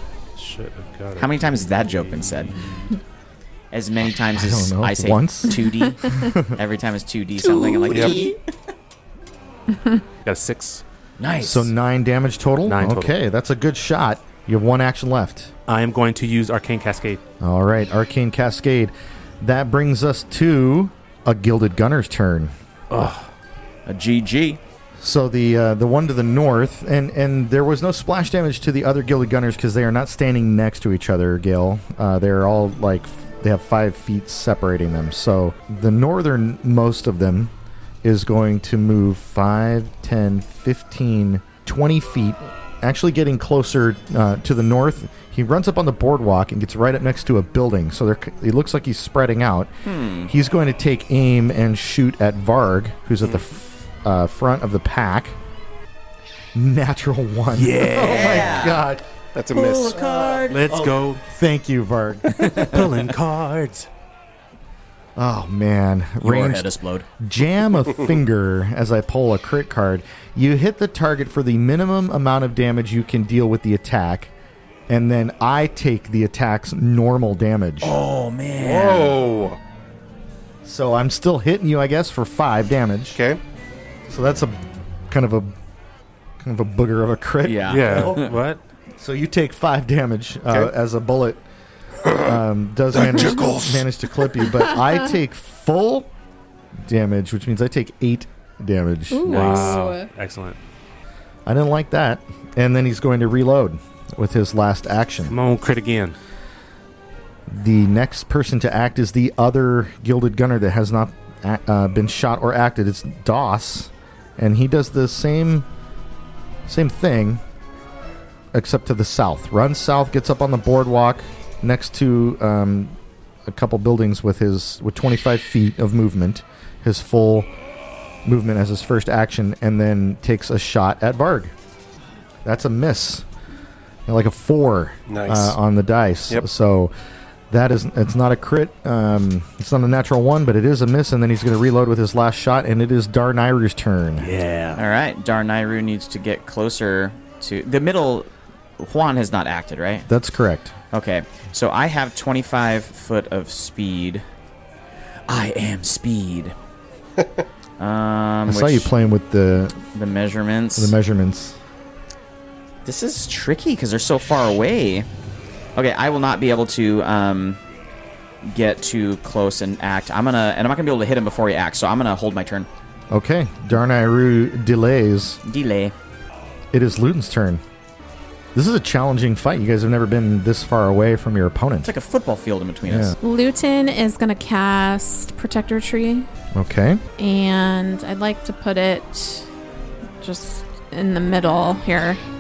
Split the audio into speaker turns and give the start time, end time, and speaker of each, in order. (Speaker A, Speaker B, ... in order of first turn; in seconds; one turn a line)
Speaker A: 0.3-2.8
Speaker B: 1.2-2.6
Speaker B: 3.7-8.5
Speaker C: 4.4-6.6
Speaker D: 7.9-8.3
Speaker A: 10.2-10.8
Speaker B: 11.2-11.7
Speaker C: 11.4-15.5
Speaker A: 12.6-13.2
Speaker A: 15.7-17.2
Speaker C: 17.4-22.5
Speaker A: 22.9-23.3
Speaker B: 23.9-24.6
Speaker C: 25.0-37.5
Speaker C: 38.0-49.7
Speaker B: 49.8-50.3
Speaker C: 50.3-55.4
Speaker C: 56.5-59.0
Speaker A: 57.5-58.7
Speaker B: 58.0-58.8
Speaker D: 59.3-60.6
Speaker B: 59.5-60.6
Speaker A: 60.5-61.2
Speaker C: 60.7-62.6
Speaker B: 62.3-62.8
Speaker A: 62.4-63.9
Speaker C: 65.2-74.3
Speaker B: 66.2-67.1
Speaker C: 74.9-78.0
Speaker B: 77.8-79.2
Speaker D: 78.5-79.6
Speaker C: 80.6-83.2
Speaker D: 83.2-83.4
Speaker C: 84.1-85.5
Speaker C: 86.4-88.3
Speaker B: 87.4-88.4
Speaker A: 87.7-88.6
Speaker C: 89.0-91.4
Speaker D: 92.0-92.4
Speaker C: 92.1-96.1
Speaker D: 92.9-93.8
Speaker C: 96.8-99.7
Speaker E: 99.1-100.1
Speaker A: 99.2-100.6
Speaker B: 99.4-99.6
Speaker C: 101.5-105.3
Speaker A: 105.3-106.2
Speaker C: 107.5-115.7
Speaker C: 116.7-117.4
Speaker C: 118.5-127.5
Speaker C: 128.2-131.5
Speaker C: 132.4-133.2
Speaker C: 134.1-136.9
Speaker D: 135.1-135.6
Speaker C: 137.5-144.3
Speaker A: 144.2-144.8
Speaker B: 144.8-150.1
Speaker C: 150.1-150.8
Speaker B: 150.9-154.2
Speaker B: 155.3-156.5
Speaker B: 157.8-158.9
Speaker C: 158.5-159.8
Speaker B: 159.9-160.9
Speaker C: 160.8-161.6
Speaker B: 162.8-165.1
Speaker B: 165.8-167.6
Speaker B: 168.4-172.7
Speaker C: 173.1-175.4
Speaker B: 175.4-175.9
Speaker C: 176.7-177.6
Speaker C: 178.5-181.9
Speaker B: 181.8-183.2
Speaker C: 182.9-183.2
Speaker E: 183.2-186.3
Speaker C: 186.5-187.0
Speaker E: 187.2-189.5
Speaker E: 190.2-192.2